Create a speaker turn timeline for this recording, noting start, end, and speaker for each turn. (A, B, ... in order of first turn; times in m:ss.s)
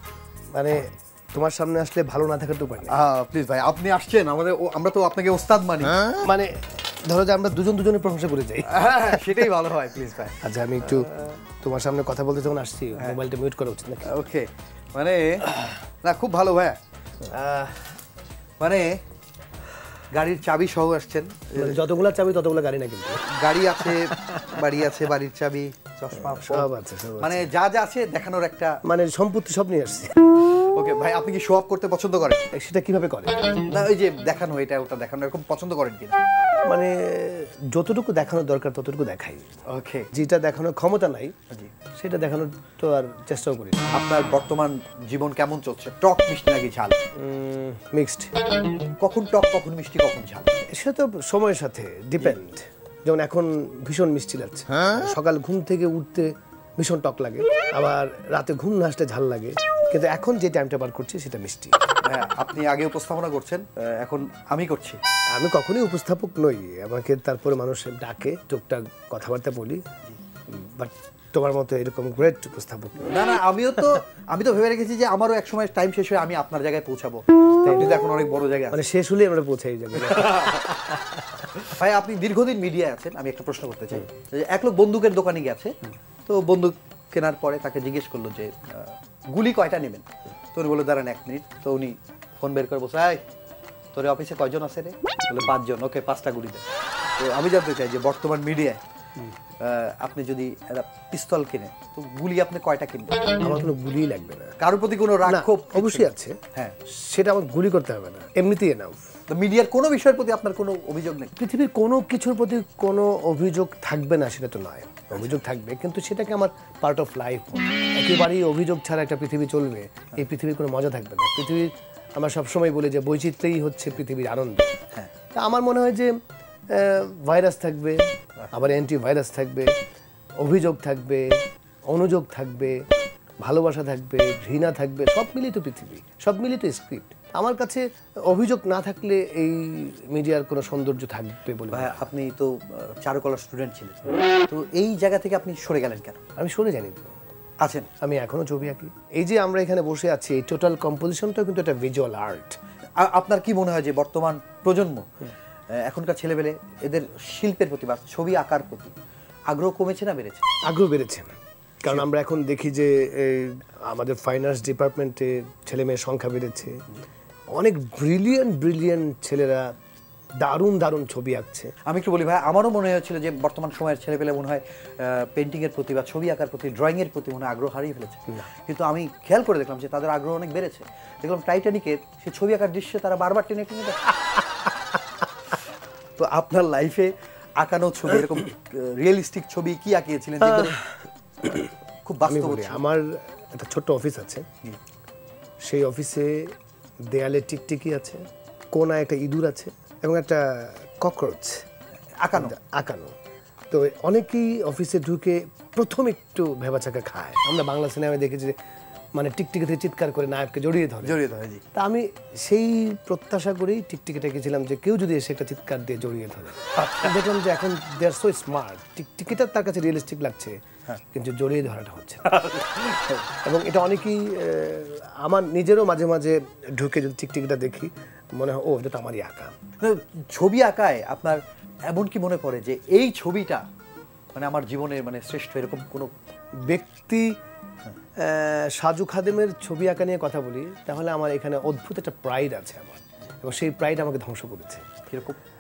0:00.5-0:03.0 A
0:02.9-0:06.1 B
0:06.1-0:09.5 A
0:08.7-0:11.4 B
0:10.4-0:14.2 A
0:14.0-0:16.8 B
0:17.2-0:17.9 A
0:18.6-0:19.0 B
0:20.1-0:21.8 B
0:21.6-0:23.2 A
0:23.2-0:28.8 B
0:26.2-0:27.5 A
0:28.8-0:30.2 A
0:30.6-0:32.4 B
0:32.5-0:33.6 A
0:33.7-0:36.2 B
0:36.6-0:39.5 A
0:39.7-0:40.1 B
0:40.1-0:41.3 A
0:42.0-0:43.8 A
0:43.9-0:47.0 B
0:47.2-0:48.3 A
0:49.0-0:50.6 B
0:50.7-1:01.8 A
1:02.0-1:05.0 B
1:05.3-1:09.8 A
1:10.5-1:13.3 A
1:13.0-1:18.8 B
1:17.6-1:18.0 A
1:18.7-1:20.7 A
1:20.0-1:20.9 B
1:21.6-1:33.2 B
1:33.9-1:36.6 B
1:37.2-1:38.8 B
1:39.6-1:43.3 B
1:43.4-1:44.6 A
1:44.6-1:46.8 B
1:45.2-1:49.0 A
1:49.3-1:51.3 B
1:51.4-2:04.7 A
1:55.1-1:55.4 B
2:05.3-2:06.1 A
2:06.7-2:09.8 A
2:10.4-2:12.7 A
2:13.4-2:22.1 A
2:21.7-2:26.2 B
2:26.4-2:27.1 A
2:27.6-2:27.9 B
2:28.0-2:32.6 A
2:33.0-2:35.1 B
2:35.7-2:38.9 B
2:39.5-2:40.4 B
2:40.7-2:41.3 A
2:41.8-2:46.8 A
2:47.5-2:49.7 A
2:50.4-2:51.7 A
2:51.9-3:04.1 B
3:06.2-3:10.8 B
3:10.4-3:11.7 A
3:12.0-3:12.8 B
3:12.2-3:14.5 A
3:15.6-3:16.5 A
3:17.1-3:18.2 A
3:18.7-3:21.6 A
3:22.2-3:22.5 B
3:22.3-3:23.1 A
3:23.7-3:28.6 A
3:29.2-3:31.2 A
3:31.0-3:31.6 B
3:31.8-3:40.6 A
3:36.8-3:37.2 B
3:41.1-3:42.5 A
3:42.3-3:43.2 B
3:43.4-3:49.5 A
3:49.8-3:53.6 B
3:54.4-3:56.1 B
3:56.7-3:57.4 A
3:58.2-4:04.9 A
4:05.1-4:05.4 B